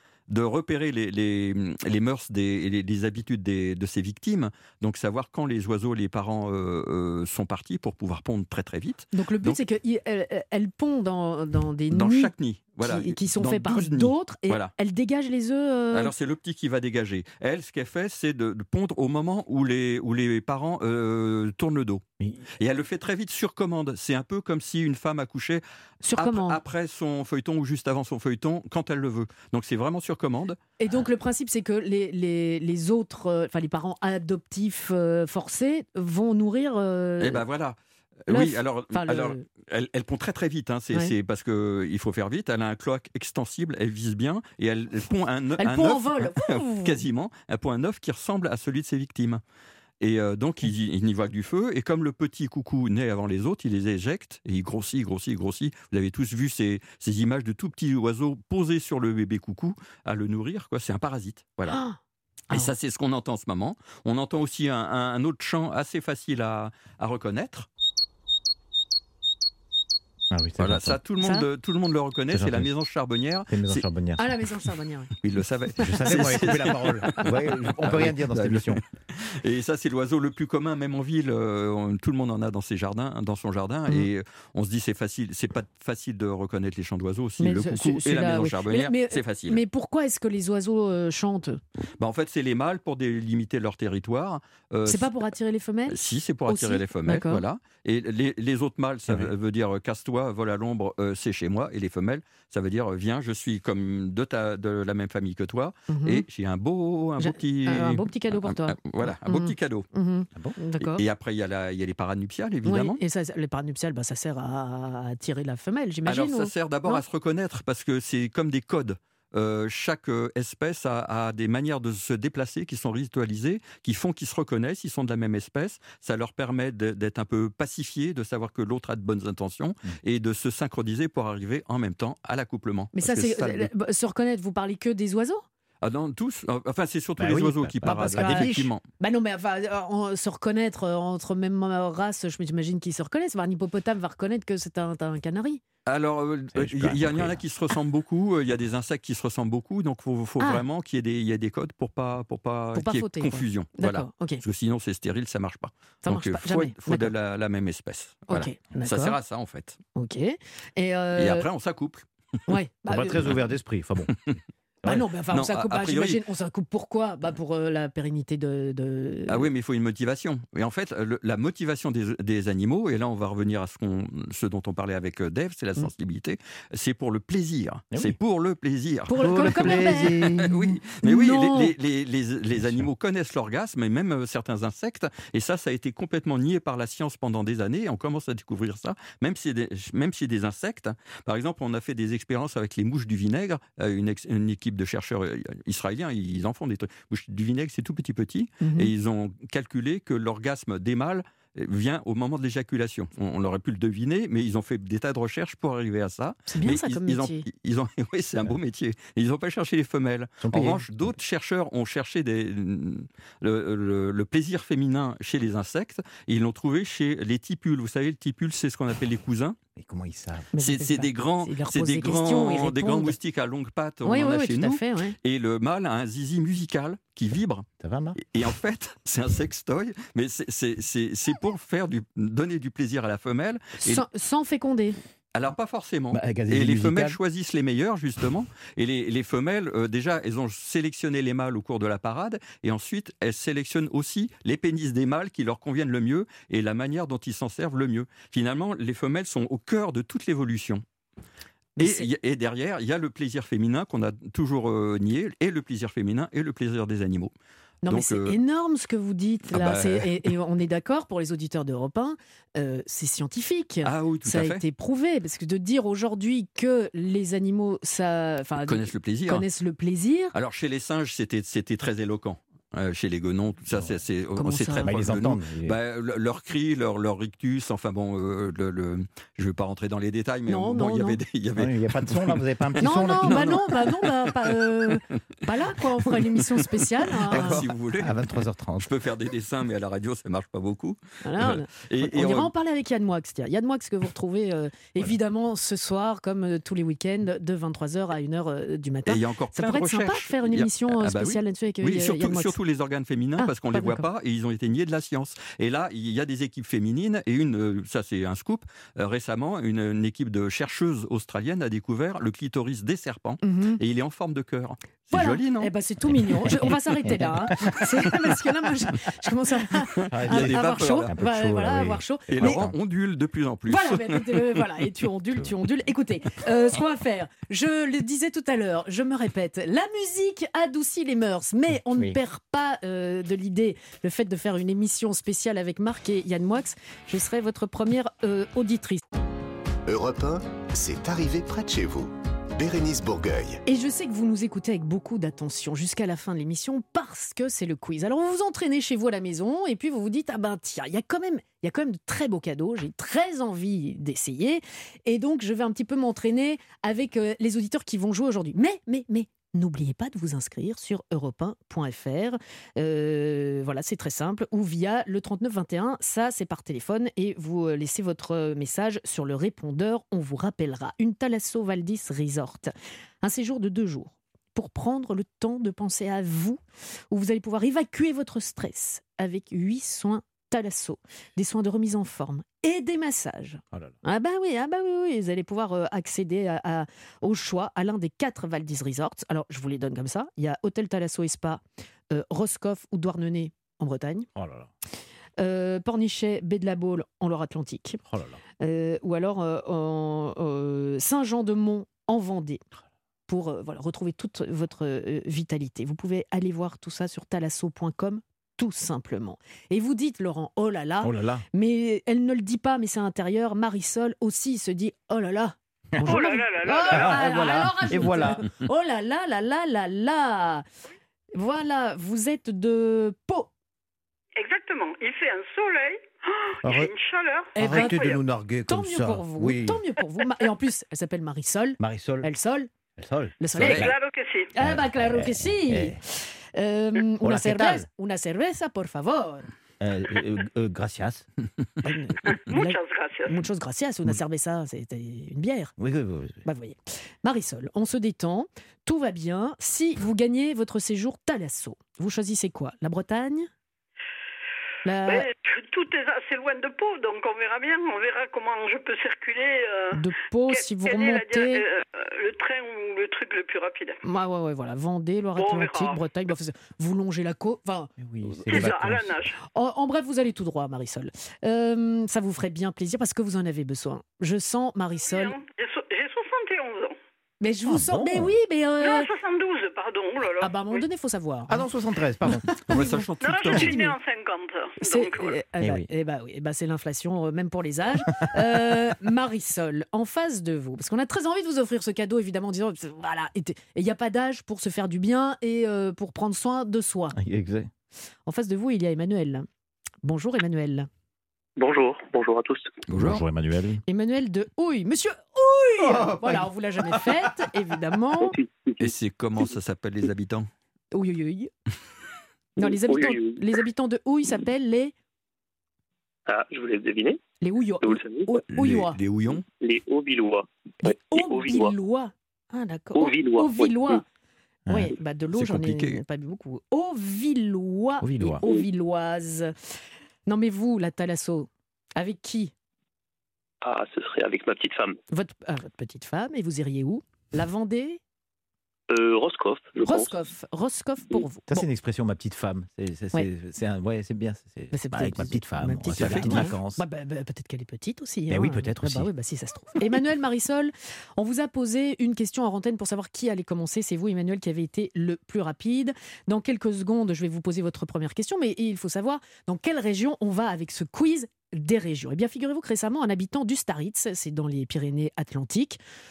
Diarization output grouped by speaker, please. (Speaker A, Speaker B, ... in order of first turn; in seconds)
Speaker A: 0.3-9.6, 11.9-14.7, 15.9-22.0, 22.6-25.6, 26.2-30.6, 37.2-49.4, 50.0-61.8, 62.5-67.7, 70.6-73.8, 75.2-89.6, 92.0-95.2, 95.9-109.9, 110.8-113.0, 116.1-133.7, 135.8-138.8, 145.9-159.8, 161.2-162.1, 165.3-166.2, 169.3-219.6, 220.6-227.7, 228.2-234.0, 235.3-250.8, 251.8-257.3, 257.9-258.4, 259.5-260.2, 263.8-264.6, 268.6-269.5, 270.3-285.1, 286.2-288.2, 288.8-292.5, 299.1-315.7, 320.0-321.1, 322.3-324.6, 482.6-483.8, 502.9-503.2, 508.8-510.5, 518.5-519.4, 525.3-526.0, 546.0-546.5
Speaker B: 9.1-16.1, 26.0-26.6, 30.8-37.4, 38.3-39.4, 45.6-47.0, 61.7-62.0, 71.2-71.5, 74.2-75.1, 87.4-91.6, 94.9-97.4, 105.9-106.2, 107.2-111.0, 112.7-117.0, 132.9-135.4, 137.9-145.6, 152.8-154.4, 156.1-157.1, 158.3-159.2, 160.0-161.5, 162.5-163.2, 164.8-169.5, 179.1-180.2, 181.0-181.7, 198.6-198.9, 206.5-207.4, 220.5-223.2, 224.1-225.2, 233.8-235.0, 251.8-252.1, 257.9-270.4, 274.4-274.9, 280.5-281.2, 282.8-287.7, 291.2-302.6, 303.4-304.1, 313.4-313.8, 315.1-322.6, 323.7-339.0, 343.7-394.3, 395.4-398.0, 398.6-402.6, 403.3-420.6, 421.4-423.5, 427.6-432.7, 433.4-433.9, 434.5-439.5, 441.8-445.7, 446.4-453.5, 454.9-455.3, 459.9-461.6, 464.0-468.8, 469.5-475.4, 477.4-479.1, 480.4-481.6, 482.7-483.9, 484.8-497.2, 498.3-499.5, 500.0-500.9, 503.9-508.4, 510.9-511.5, 512.6-514.9, 517.4-519.0, 520.8-524.0, 524.7-529.5, 530.3-532.5, 535.1-538.0, 539.8-541.7, 544.7-565.8
Speaker C: 70.3-71.0, 72.3-72.7, 73.5-74.2, 75.8-78.8, 137.2-138.7, 146.5-147.4, 162.9-164.3, 179.2-180.8, 182.5-182.9, 210.4-210.8, 219.8-220.5, 227.8-228.2, 236.1-237.2, 273.7-274.0, 274.8-275.8, 281.6-283.6, 287.3-288.9, 317.1-318.2, 320.1-322.7, 394.4-394.7, 398.1-398.4, 411.0-411.4, 415.9-416.2, 416.9-418.5, 426.6-426.9, 427.6-429.8, 431.8-432.3, 433.0-433.9, 434.6-436.0, 437.2-437.9, 439.8-441.3, 445.8-446.4, 468.0-469.2, 477.7-478.3, 481.5-482.6, 485.6-485.9, 497.1-497.7, 502.9-503.8, 505.8-507.3, 528.0-528.4, 541.5-546.8, 548.3-549.1
Speaker D: 339.9-343.6
Speaker E: 416.1-417.2, 424.4-428.2, 433.8-434.5, 442.5-443.3, 455.1-464.0, 465.4-466.1, 468.5-469.4, 475.0-477.0, 478.8-480.9, 483.2-485.4
Speaker F: 501.6-502.7, 508.2-508.9, 512.6-513.4, 516.3-517.2, 517.8-518.4, 519.5-521.7, 522.9-524.0, 533.6-535.0, 538.9-540.2